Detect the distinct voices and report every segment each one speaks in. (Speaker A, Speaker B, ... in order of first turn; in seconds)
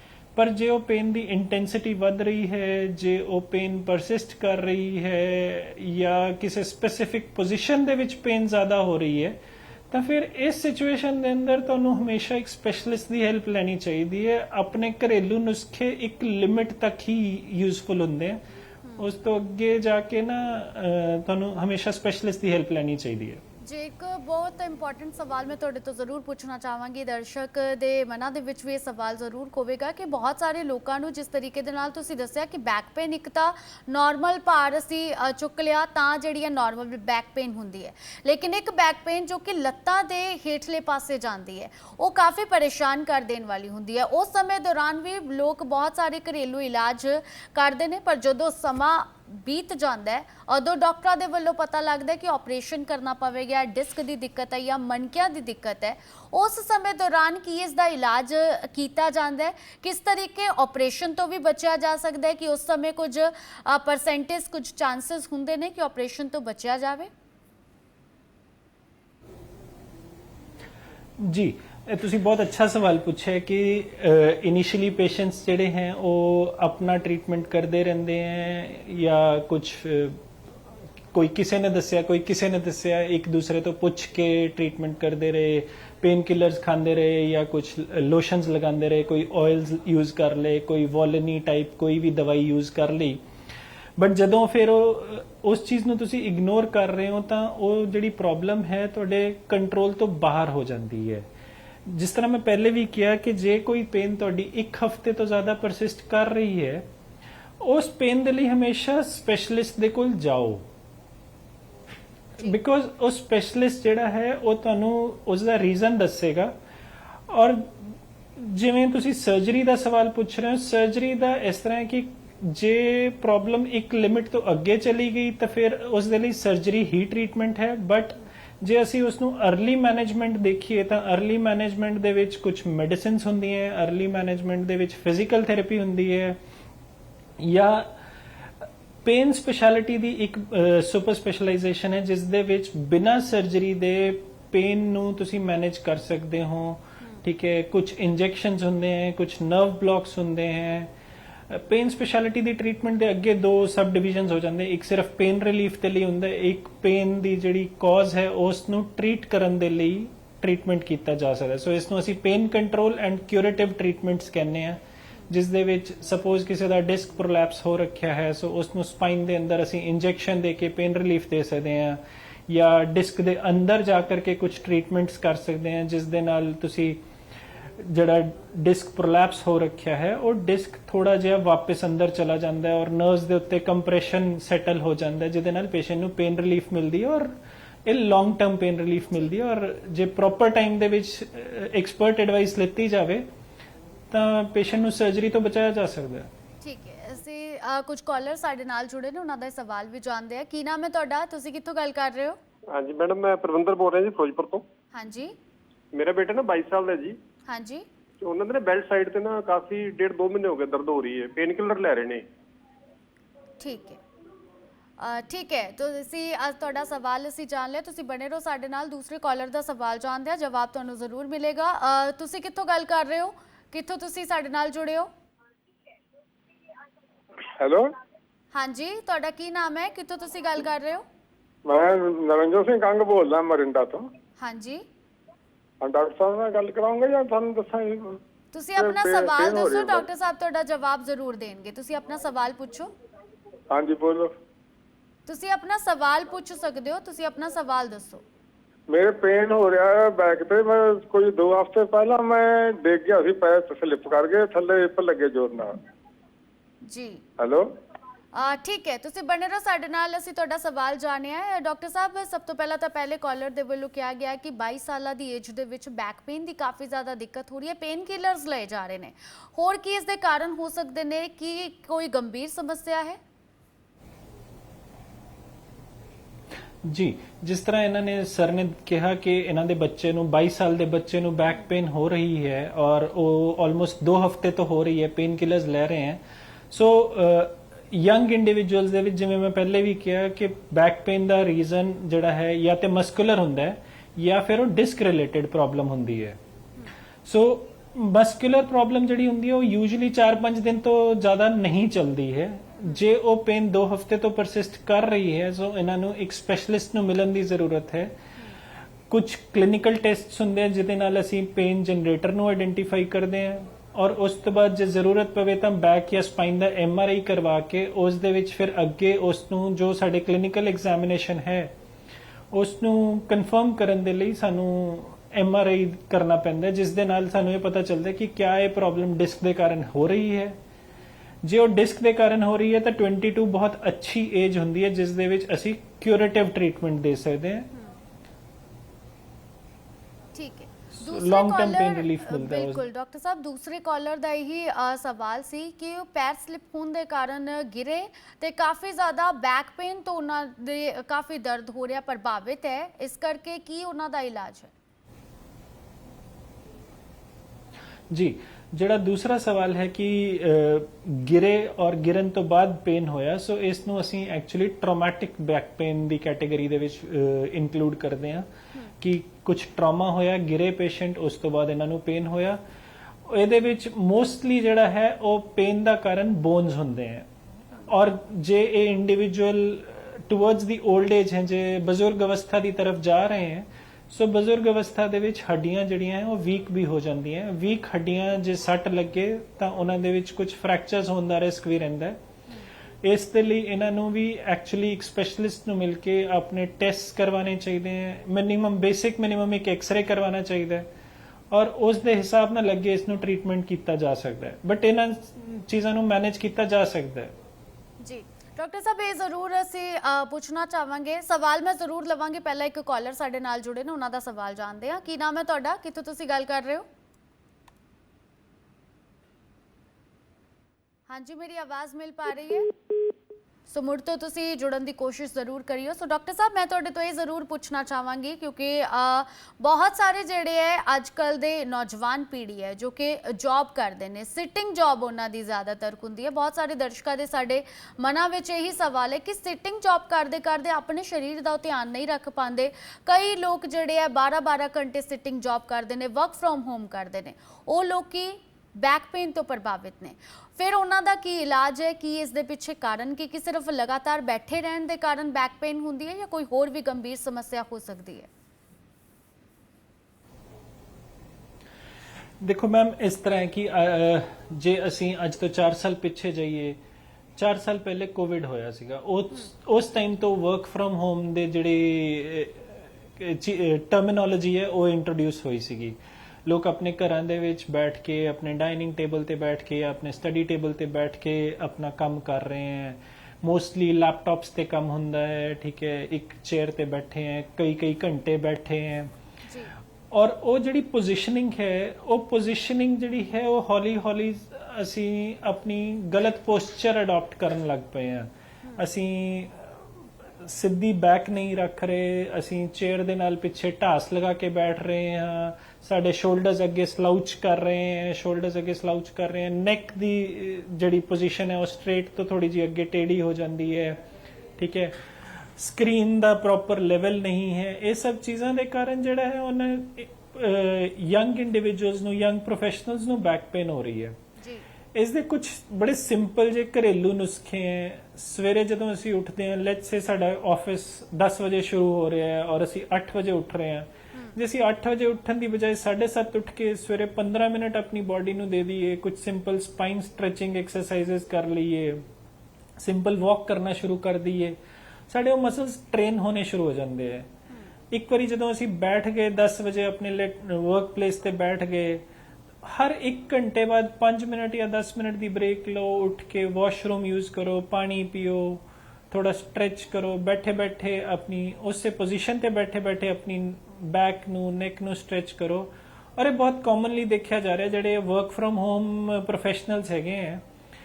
Speaker A: 0.3-9.4, 9.9-18.4, 19.0-23.4, 71.2-80.2, 81.1-93.2, 94.0-101.3, 101.8-106.8, 107.6-110.7, 112.4-116.5, 117.3-136.4, 137.4-150.9, 151.5-177.0, 177.8-187.3, 187.8-193.2, 194.1-196.3, 276.8-296.4, 297.2-308.1, 309.1-321.7, 322.5-330.6, 331.4-337.7, 340.9-342.8, 358.1-368.5, 369.0-372.6, 373.2-377.3, 377.9-392.2, 393.0-400.9, 401.5-407.3, 462.4-466.8, 467.4-489.1, 490.1-514.0, 514.5-524.2, 524.9-542.0, 542.8-544.6, 545.1-547.3, 547.9-552.0, 552.6-570.4
Speaker B: 23.6-67.1, 196.6-202.4, 204.9-205.3, 207.5-207.8, 213.6-214.0, 215.0-225.1, 228.5-231.0, 234.4-234.8, 238.5-242.9, 245.3-248.2, 256.9-257.2, 258.3-273.2, 340.3-354.7, 408.0-416.9, 421.1-422.7, 423.7-458.3, 489.5-489.7, 524.4-524.6
Speaker C: 202.7-204.6, 205.9-207.2, 208.2-212.2
Speaker D: 227.6-227.9, 231.7-234.1, 235.8-238.2, 238.8-240.0, 243.7-244.3, 248.9-255.7, 257.4-257.7